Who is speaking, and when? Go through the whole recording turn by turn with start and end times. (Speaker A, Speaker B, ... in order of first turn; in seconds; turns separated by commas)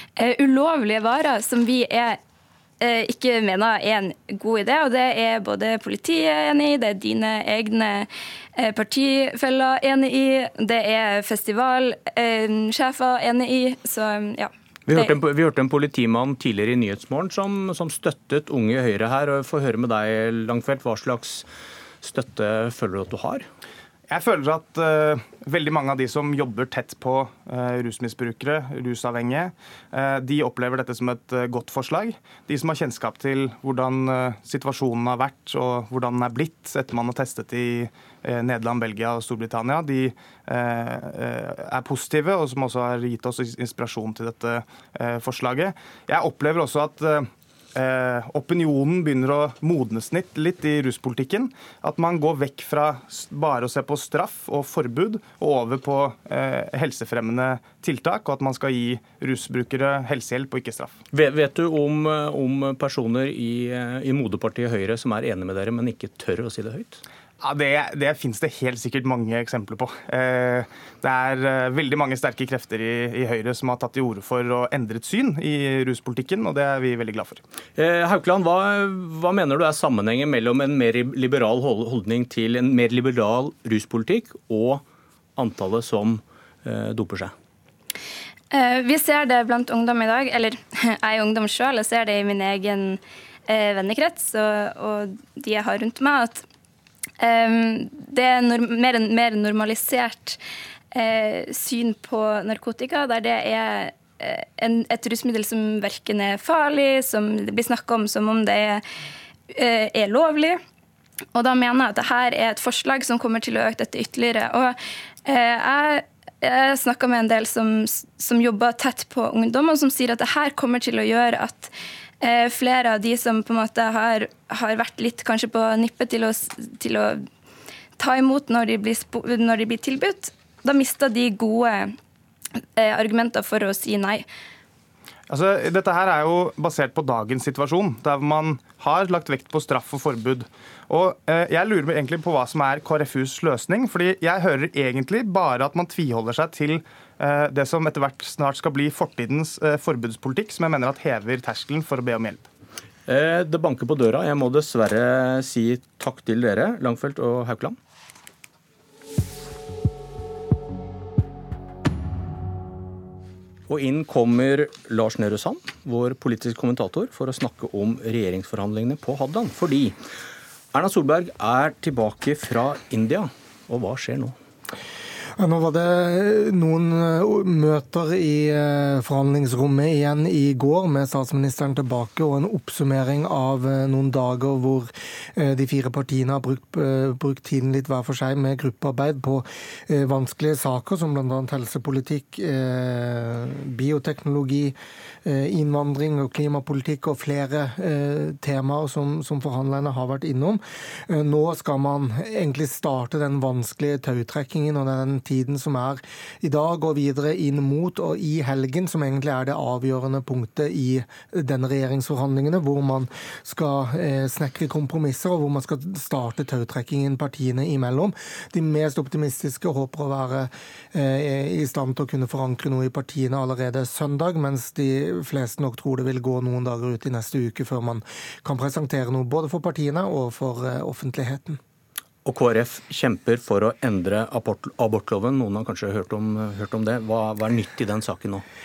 Speaker A: 0.2-2.2, Speaker A: 2.8-15.1, Speaker B: 14.9-21.5, Speaker B: 22.0-23.5, Speaker C: 24.1-61.0, Speaker B: 61.1-67.0, Speaker C: 67.4-77.4, Speaker B: 77.8-84.8, Speaker B: 85.4-87.3, Speaker A: 88.5-96.4, Speaker A: 97.2-100.4, Speaker A: 100.9-108.8, Speaker A: 109.5-110.6, Speaker A: 111.3-127.2, Speaker A: 128.0-131.9, Speaker A: 132.8-134.3, Speaker C: 135.3-152.5, Speaker B: 153.1-157.8, Speaker B: 163.7-170.0, Speaker B: 170.7-174.4, Speaker D: 175.4-231.6, Speaker B: 232.2-238.4